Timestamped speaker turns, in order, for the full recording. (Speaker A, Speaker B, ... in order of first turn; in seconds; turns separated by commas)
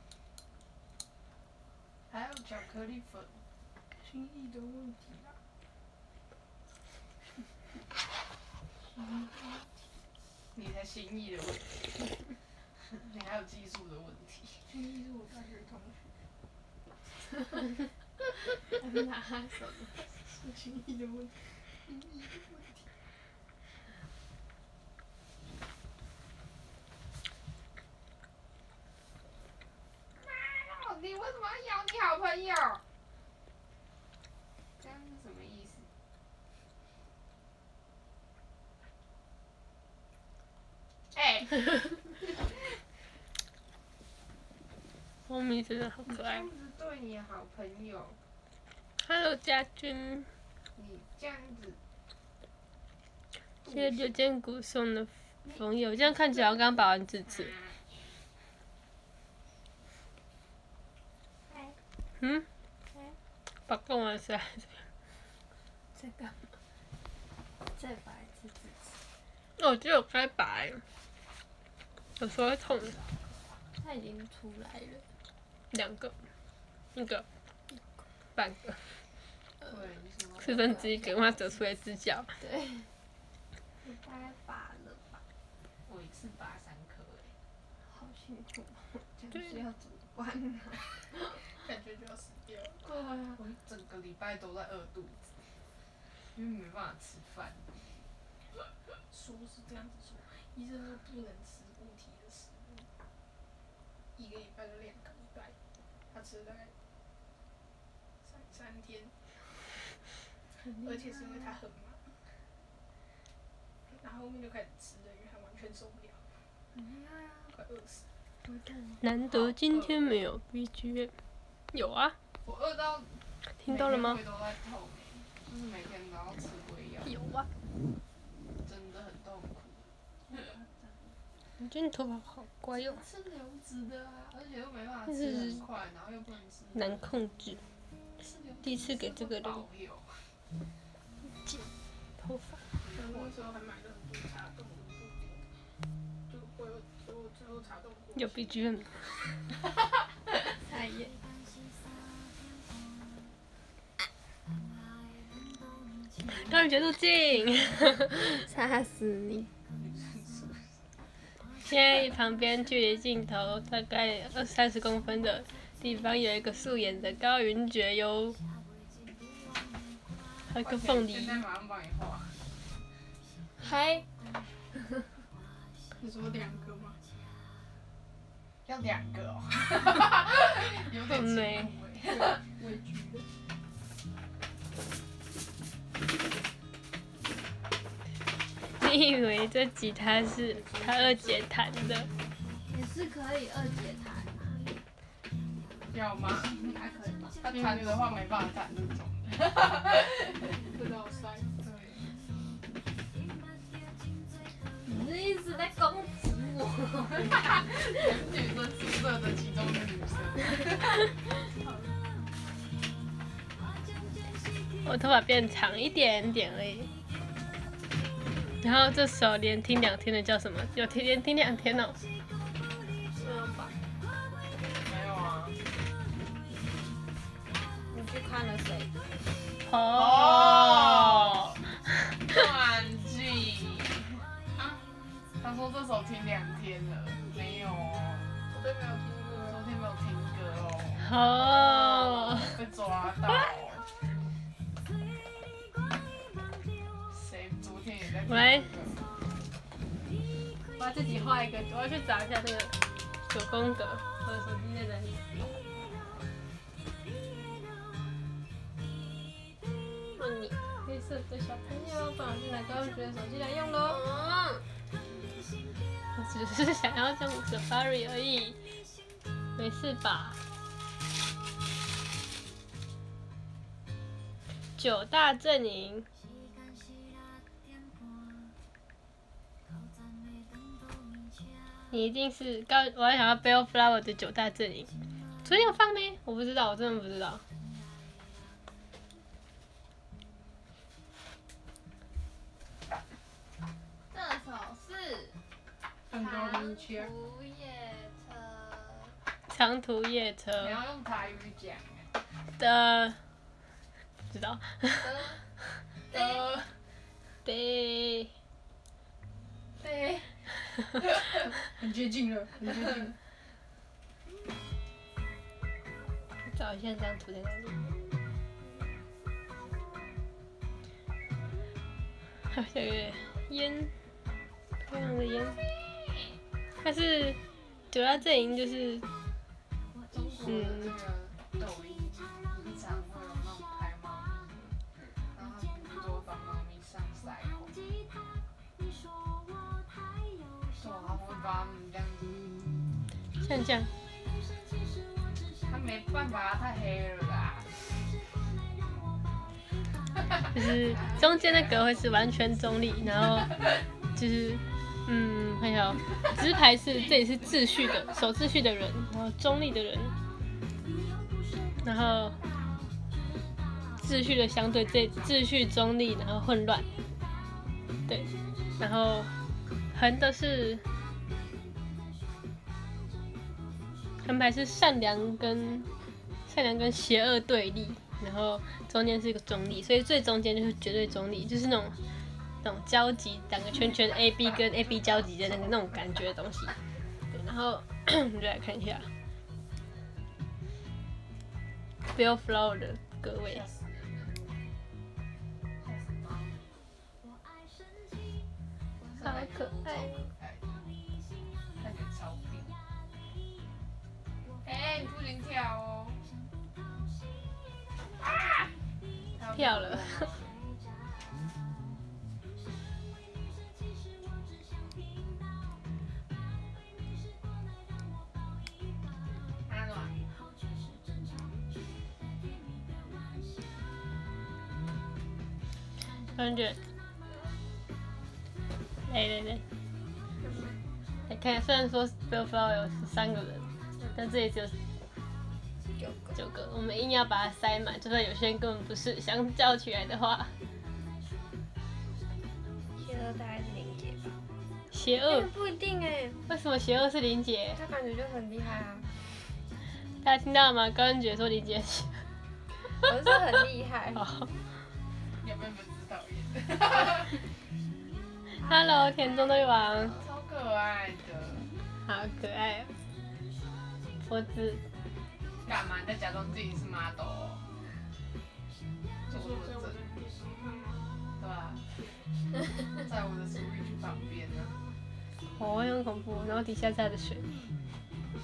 Speaker A: 2.1-3.4, Speaker B: 3.9-5.4, Speaker B: 8.9-9.7, Speaker A: 10.5-11.9, Speaker A: 12.9-14.7, Speaker B: 14.7-16.2, Speaker C: 18.8-19.9, Speaker B: 20.3-22.9, Speaker A: 30.2-32.8, Speaker A: 34.8-35.9, Speaker A: 41.1-42.6, Speaker D: 45.3-46.5, Speaker A: 46.1-48.2, Speaker D: 49.0-50.3, Speaker A: 50.8-51.8, Speaker D: 53.7-57.5, Speaker A: 56.3-56.5, Speaker A: 57.3-57.9, Speaker C: 61.5-61.8, Speaker D: 62.2-62.5, Speaker D: 63.7-64.8, Speaker C: 67.7-69.0, Speaker D: 69.6-70.8, Speaker D: 72.2-73.0, Speaker A: 72.7-73.2, Speaker C: 73.8-75.0, Speaker D: 75.7-76.2, Speaker D: 77.0-77.2, Speaker D: 78.4-78.8, Speaker A: 79.7-81.6, Speaker D: 80.4-82.3, Speaker C: 82.4-82.9, Speaker C: 83.8-85.2, Speaker A: 85.9-87.3, Speaker C: 87.8-91.1, Speaker B: 91.5-92.9, Speaker C: 92.8-93.4, Speaker A: 93.4-95.5, Speaker A: 96.3-98.0, Speaker B: 99.1-102.9, Speaker B: 104.2-105.6, Speaker B: 106.1-106.7, Speaker B: 108.2-109.3, Speaker C: 110.7-111.6, Speaker B: 110.8-112.1, Speaker B: 113.9-116.4, Speaker C: 116.8-117.5, Speaker B: 117.5-118.1, Speaker D: 119.0-121.1, Speaker A: 119.4-119.9, Speaker D: 121.7-122.2, Speaker A: 122.4-127.2, Speaker D: 123.6-124.2, Speaker A: 128.6-130.5, Speaker B: 130.3-131.1, Speaker D: 131.6-133.1, Speaker A: 132.9-137.1, Speaker D: 135.1-135.6, Speaker D: 136.8-137.6, Speaker A: 138.2-140.3, Speaker D: 138.6-139.6, Speaker D: 142.2-142.6, Speaker A: 142.9-143.5, Speaker B: 142.9-145.5, Speaker B: 146.3-148.5, Speaker D: 148.2-149.1, Speaker C: 150.6-151.2, Speaker D: 156.3-158.4, Speaker C: 158.3-159.5, Speaker A: 159.7-160.8, Speaker D: 161.6-168.4, Speaker D: 170.5-171.4, Speaker A: 170.6-172.4, Speaker C: 173.6-174.1, Speaker B: 176.0-177.0, Speaker A: 178.7-182.4, Speaker D: 181.1-181.8, Speaker B: 182.1-183.3, Speaker D: 188.8-192.1, Speaker C: 192.7-194.8, Speaker A: 195.9-196.8, Speaker C: 196.6-197.8, Speaker A: 197.4-200.5, Speaker B: 200.6-201.8, Speaker A: 201.6-202.1, Speaker C: 204.8-207.4, Speaker A: 207.2-211.1, Speaker D: 214.8-216.9, Speaker D: 218.6-222.0, Speaker C: 223.2-223.8, Speaker A: 224.7-225.7, Speaker C: 227.9-229.3, Speaker D: 229.7-231.5, Speaker A: 229.9-231.6, Speaker A: 232.2-234.2, Speaker A: 235.4-238.4, Speaker B: 238.5-239.7, Speaker A: 239.3-244.0, Speaker D: 241.0-242.6, Speaker A: 247.1-249.0, Speaker D: 248.3-248.7, Speaker D: 250.8-252.8, Speaker D: 253.3-255.3, Speaker D: 260.8-264.0, Speaker C: 263.8-264.6, Speaker D: 266.2-268.6, Speaker D: 269.6-270.4, Speaker D: 274.8-276.1, Speaker D: 281.9-284.9, Speaker D: 285.4-287.4, Speaker C: 294.1-295.4, Speaker B: 296.1-297.1, Speaker C: 296.1-299.1, Speaker D: 299.5-300.8, Speaker A: 300.6-302.1, Speaker D: 302.6-303.2, Speaker D: 304.3-305.1, Speaker A: 306.1-306.6, Speaker D: 307.4-308.3, Speaker A: 309.8-310.4, Speaker B: 311.6-313.1, Speaker D: 316.4-317.8, Speaker D: 322.5-323.9, Speaker D: 324.8-325.6, Speaker D: 326.8-327.4, Speaker D: 327.9-329.1, Speaker A: 330.1-334.8, Speaker D: 330.5-330.9, Speaker A: 335.3-337.8, Speaker A: 340.8-342.5, Speaker D: 343.4-343.9, Speaker A: 345.6-348.1, Speaker D: 350.5-360.2, Speaker A: 350.8-351.9, Speaker D: 361.8-362.4, Speaker D: 364.0-366.9, Speaker D: 368.1-369.3, Speaker D: 369.9-370.8, Speaker D: 374.2-375.9, Speaker D: 376.5-382.0, Speaker D: 382.6-386.7, Speaker D: 387.3-389.1, Speaker D: 392.1-393.6, Speaker A: 393.4-394.5, Speaker A: 395.8-396.7, Speaker A: 399.1-400.9, Speaker D: 399.2-400.2, Speaker A: 401.8-402.7, Speaker A: 404.6-406.3, Speaker A: 408.2-408.7, Speaker A: 409.4-410.6, Speaker D: 409.6-410.3, Speaker A: 419.7-420.3, Speaker D: 426.4-426.8, Speaker D: 429.1-429.6, Speaker C: 430.4-430.8, Speaker D: 431.3-434.8, Speaker C: 436.0-436.4, Speaker D: 436.4-440.5, Speaker C: 443.0-444.4, Speaker D: 444.9-445.5, Speaker C: 445.3-446.4, Speaker D: 446.5-447.8, Speaker C: 447.7-449.5, Speaker D: 450.2-452.3, Speaker C: 453.0-454.2, Speaker D: 454.2-454.5, Speaker A: 455.4-457.5, Speaker C: 458.6-460.2, Speaker D: 458.6-460.1, Speaker A: 460.1-461.7, Speaker D: 462.1-463.0, Speaker D: 464.2-464.8, Speaker A: 465.6-467.7, Speaker B: 469.3-471.1, Speaker A: 469.3-470.0, Speaker A: 471.4-471.9, Speaker B: 471.9-472.3, Speaker A: 472.9-474.8, Speaker D: 475.6-477.5